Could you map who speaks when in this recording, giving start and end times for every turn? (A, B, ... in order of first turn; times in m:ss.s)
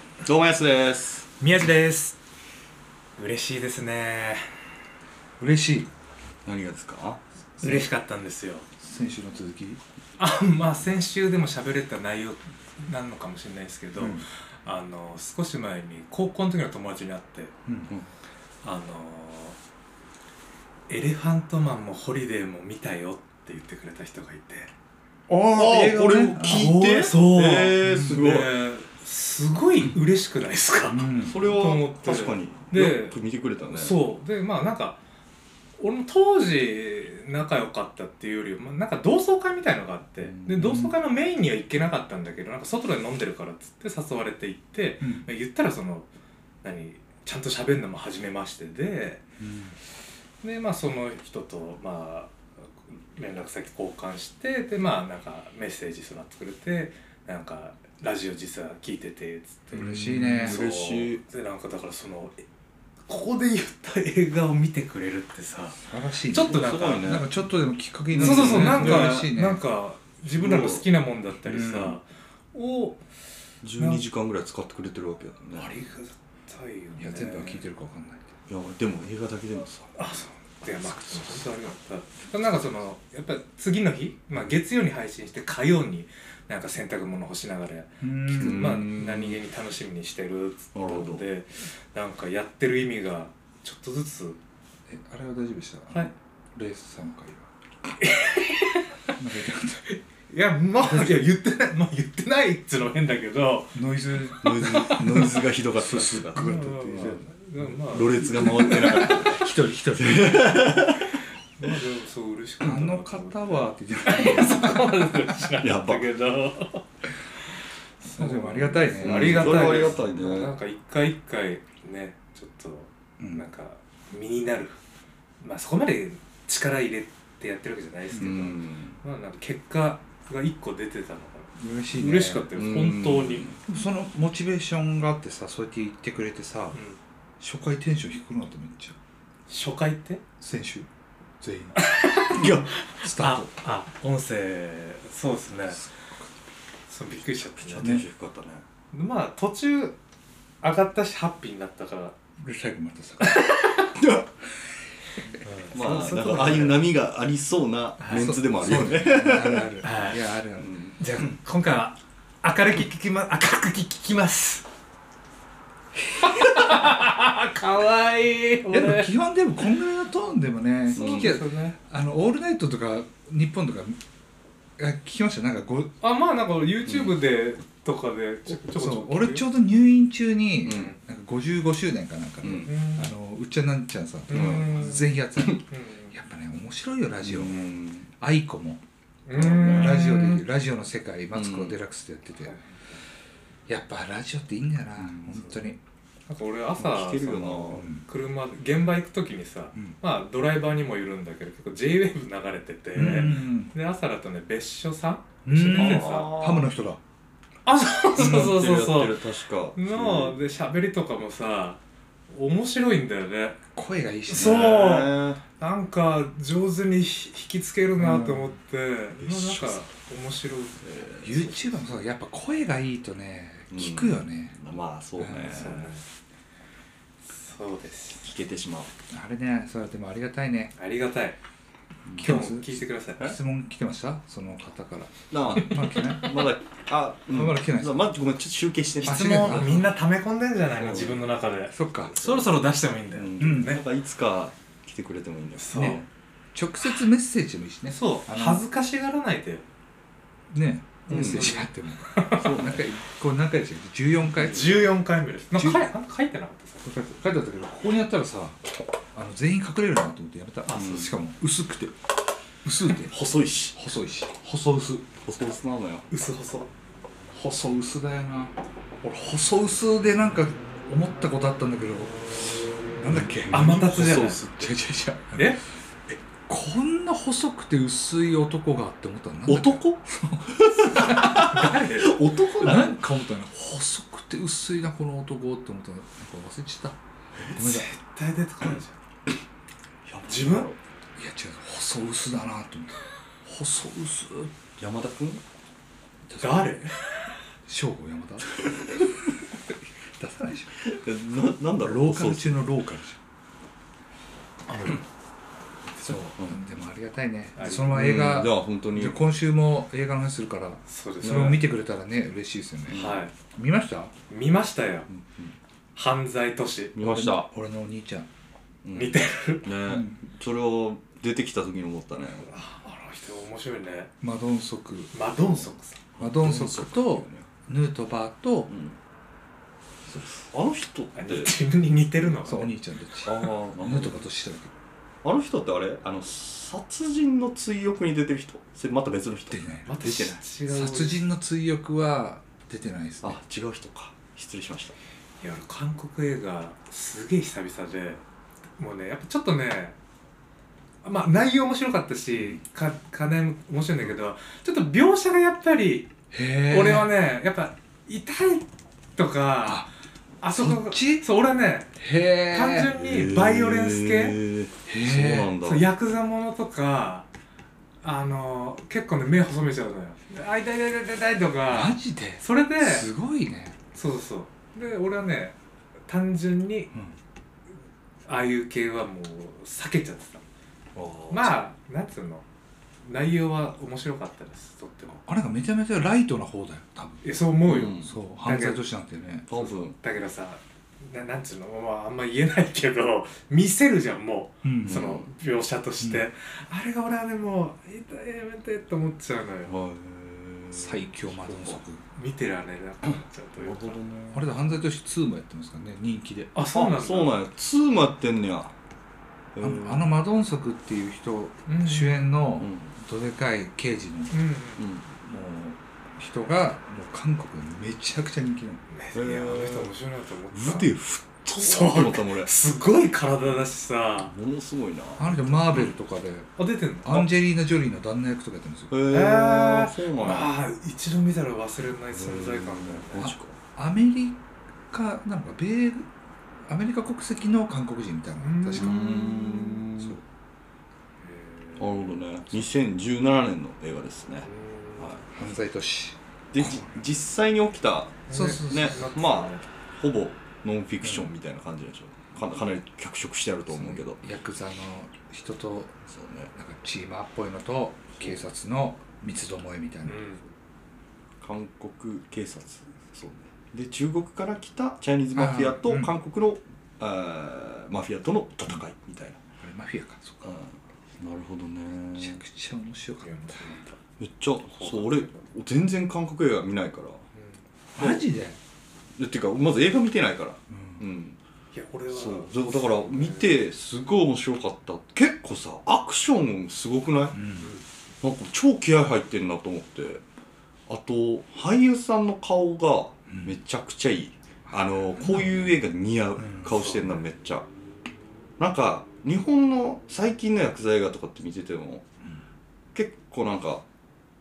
0:00.2-0:01.3 A
0:01.4-0:02.2 B
0:03.2-0:04.6 B
0:05.4-0:05.9 C
0:06.4-0:07.2 A
0:07.6-0:08.6 B
0:08.8-0:09.8 C
0:10.2-0:17.5 B
0:14.0-0:14.2 C
0:17.6-0:17.9 C
0:18.6-0:19.6 B
0:20.9-0:24.7 B
0:25.3-0:33.2 B
0:25.4-0:28.6 A
0:26.0-0:26.7 C
0:27.8-0:28.2 C
0:30.9-0:31.4 C
0:31.2-0:34.0 A
0:33.7-0:35.0 B
0:35.8-0:46.1 B
0:40.4-0:40.9 C
0:45.0-0:45.3 C
0:46.6-0:49.2 B
0:49.4-0:49.8 C
0:50.4-1:02.4 B
0:59.7-1:00.6 C
0:59.8-1:01.2 A
1:03.1-1:07.1 B
1:05.8-1:09.6 C
1:06.4-1:07.3 A
1:08.1-1:09.2 A
1:08.2-1:13.0 B
1:10.3-1:10.9 A
1:11.4-1:12.0 C
1:13.6-1:15.7 A
1:13.8-1:14.0 B
1:15.6-1:17.6 B
1:17.0-1:18.3 C
1:18.5-1:19.9 A
1:20.0-1:34.4 B
1:20.8-1:21.5 C
1:28.0-1:28.9 C
1:28.3-1:29.4 A
1:30.7-1:31.2 A
1:34.9-1:37.4 C
1:38.0-1:39.1 B
1:39.2-1:39.9 C
1:39.9-1:43.8 B
1:40.8-1:41.2 C
1:43.7-1:47.7 C
1:44.4-1:47.2 A
1:46.4-1:49.4 B
1:47.8-1:51.1 A
1:48.4-1:50.8 C
1:51.6-1:56.8 B
1:52.6-1:55.3 C
1:55.6-1:56.1 A
1:58.0-2:04.8 B
1:58.1-2:00.1 C
1:59.0-2:00.5 A
2:03.2-2:03.4 C
2:05.4-2:13.5 B
2:08.2-2:09.0 A
2:11.6-2:12.5 C
2:12.6-2:13.6 A
2:13.7-2:16.8 C
2:16.7-2:17.0 B
2:17.4-2:19.0 C
2:19.5-2:20.2 B
2:20.4-2:20.9 C
2:21.4-2:21.8 C
2:21.8-2:25.8 B
2:22.4-2:22.6 A
2:22.4-2:23.5 C
2:26.9-2:27.9 B
2:27.1-2:28.6 A
2:28.9-2:30.0 B
2:30.6-2:32.2 B
2:32.4-2:33.3 C
2:33.2-2:34.0 B
2:34.0-2:34.2 A
2:35.4-2:36.8 B
2:35.7-2:39.7 A
2:35.7-2:36.7 C
2:38.0-2:38.4 B
2:38.1-2:40.7 C
2:39.8-2:40.2 B
2:40.6-2:41.0 A
2:41.0-2:44.6 B
2:46.2-2:49.1 B
2:48.7-2:54.0 C
2:50.9-2:51.8 B
2:50.9-2:51.3 A
2:54.8-2:55.9 C
2:56.0-2:59.4 B
2:58.5-3:08.8 C
3:00.6-3:00.9 A
3:00.7-3:01.0 B
3:02.4-3:02.7 A
3:02.6-3:03.1 B
3:04.3-3:05.1 B
3:04.3-3:04.9 A
3:05.7-3:06.1 B
3:07.2-3:08.1 A
3:09.3-3:10.4 B
3:09.4-3:10.4 A
3:09.6-3:12.5 C
3:11.3-3:11.7 A
3:12.4-3:12.7 B
3:13.7-3:15.8 C
3:15.0-3:15.4 A
3:16.3-3:26.3 B
3:16.8-3:17.9 A
3:17.7-3:18.0 C
3:22.9-3:23.7 C
3:25.4-3:27.0 C
3:25.7-3:26.7 A
3:27.6-3:29.2 B
3:28.2-3:30.4 A
3:28.2-3:28.6 C
3:29.7-3:33.6 B
3:33.7-3:34.7 C
3:34.3-3:35.4 A
3:34.3-3:41.6 B
3:38.0-3:38.6 C
3:39.2-3:39.8 A
3:40.8-3:41.7 A
3:41.2-3:44.6 C
3:43.7-3:45.9 A
3:45.2-3:45.7 C
3:45.5-3:46.0 B
3:47.2-3:48.3 B
3:48.2-3:48.9 A
3:49.1-3:50.7 C
3:50.8-3:51.4 B
3:52.1-3:52.4 A
3:52.1-3:56.3 C
3:52.2-3:53.3 B
3:55.3-3:59.8 A
3:57.3-3:58.1 C
3:59.0-3:59.9 C
3:59.0-4:03.8 B
4:00.8-4:01.3 A
4:01.7-4:02.1 C
4:02.2-4:02.5 A
4:03.1-4:06.0 A
4:03.4-4:03.8 C
4:05.6-4:06.0 B
4:05.7-4:08.6 C
4:07.9-4:09.6 B
4:10.5-4:14.8 C
4:11.1-4:12.5 B
4:11.1-4:11.6 A
4:12.4-4:12.8 A
4:14.4-4:16.9 B
4:14.5-4:14.8 A
4:15.5-4:15.9 C
4:16.8-4:18.6 C
4:19.1-4:22.0 C
4:20.6-4:21.1 B
4:20.7-4:21.1 A
4:22.6-4:23.1 C
4:23.1-4:23.8 A
4:23.7-4:25.0 C
4:25.2-4:26.1 A
4:26.1-4:26.7 B
4:27.3-4:28.5 C
4:29.0-4:41.6 C
4:33.5-4:34.4 B
4:33.5-4:34.7 A
4:35.3-4:35.6 B
4:39.5-4:43.0 A
4:41.1-4:42.2 B
4:42.6-4:47.0 C
4:47.6-4:47.8 C
4:47.6-4:49.0 B
4:50.0-4:50.8 A
4:50.2-4:50.7 B
4:51.2-4:54.5 C
4:54.8-4:55.4 A
4:56.4-4:57.4 B
4:57.7-5:00.8 C
5:00.8-5:02.6 A
5:01.8-5:03.2 C
5:06.0-5:14.1 C
5:07.6-5:08.0 B
5:07.8-5:09.2 A
5:10.9-5:11.6 B
5:11.2-5:11.6 A
5:12.9-5:13.2 A
5:12.9-5:13.3 B
5:14.3-5:15.1 B
5:15.1-5:15.6 A
5:15.9-5:17.0 B
5:16.9-5:17.5 A
5:17.0-5:18.3 C
5:18.8-5:22.5 A
5:18.9-5:19.7 B
5:19.8-5:20.2 C
5:22.4-5:24.1 B
5:24.2-5:25.6 C
5:25.1-5:26.0 B
5:26.2-5:27.5 A
5:26.2-5:28.7 C
5:28.7-5:29.0 A
5:30.4-5:31.5 A
5:31.1-5:32.7 B
5:32.4-5:34.7 C
5:33.2-5:34.2 A
5:35.2-5:40.3 A
5:39.5-5:43.4 C
5:39.9-5:41.2 B
5:43.2-5:44.9 A
5:45.4-5:48.2 B
5:48.8-5:50.0 B
5:51.0-5:56.1 B
5:56.3-5:57.1 C
5:56.7-5:59.9 B
6:00.4-6:04.4 B
6:00.5-6:01.2 C
6:02.0-6:02.9 C
6:03.0-6:05.9 A
6:04.9-6:05.6 C
6:05.6-6:07.3 B
6:08.0-6:13.1 B
6:11.7-6:13.8 C
6:13.9-6:15.5 B
6:16.1-6:16.9 B
6:18.3-6:20.4 B
6:20.9-6:21.6 A
6:21.3-6:22.4 B
6:23.0-6:25.2 B
6:25.2-6:27.2 C
6:27.2-6:28.8 B
6:27.7-6:28.2 A
6:28.0-6:29.4 C
6:29.5-6:30.0 A
6:29.5-6:39.7 B
6:34.6-6:35.0 C
6:34.8-6:35.3 A
6:39.7-6:41.8 A
6:40.7-6:42.0 C
6:42.1-6:44.0 B
6:43.6-6:44.4 A
6:44.3-6:46.5 C
6:46.5-6:47.4 B
6:46.7-6:48.7 A
6:49.5-6:50.1 A
6:49.6-6:54.4 C
6:51.7-6:52.3 B
6:52.6-6:53.0 A
6:54.3-6:54.8 B
6:54.8-6:55.0 A
6:55.1-6:58.8 C
6:58.9-7:00.9 B
6:59.1-6:59.9 A
7:00.5-7:02.5 A
7:01.5-7:04.3 B
7:04.3-7:05.9 A
7:05.2-7:06.5 C
7:06.6-7:07.3 B
7:07.0-7:08.9 C
7:08.9-7:10.5 A
7:09.1-7:13.3 B
7:12.1-7:13.6 A
7:13.2-7:16.1 C
7:16.6-7:19.0 C
7:18.4-7:19.9 B
7:18.7-7:20.2 A
7:20.0-7:20.2 C
7:21.2-7:22.1 B
7:21.8-7:25.2 A
7:24.4-7:25.1 B
7:25.3-7:27.0 C
7:26.5-7:34.2 A
7:28.3-7:29.6 B
7:28.3-7:29.0 C
7:31.0-7:31.3 C
7:33.7-7:36.0 C
7:36.1-7:36.5 A
7:36.5-7:40.2 C
7:40.0-7:40.4 B
7:41.4-7:49.4 A
7:45.3-7:46.1 C
7:49.6-7:50.6 C
7:50.4-7:52.4 A
7:52.2-7:53.7 C
7:53.2-7:54.0 B
7:54.2-7:57.2 A
7:54.8-7:55.4 B
7:58.0-7:58.6 C
7:58.0-7:58.2 A
7:59.2-8:01.4 A
8:00.7-8:01.0 C
8:01.7-8:03.5 B
8:02.1-8:07.4 A
8:07.3-8:07.7 C
8:08.2-8:10.2 A
8:10.9-8:17.6 A
8:13.3-8:13.6 C
8:14.7-8:15.7 C
8:16.4-8:16.8 C
8:16.7-8:17.2 B
8:18.6-8:22.0 A
8:22.9-8:23.8 A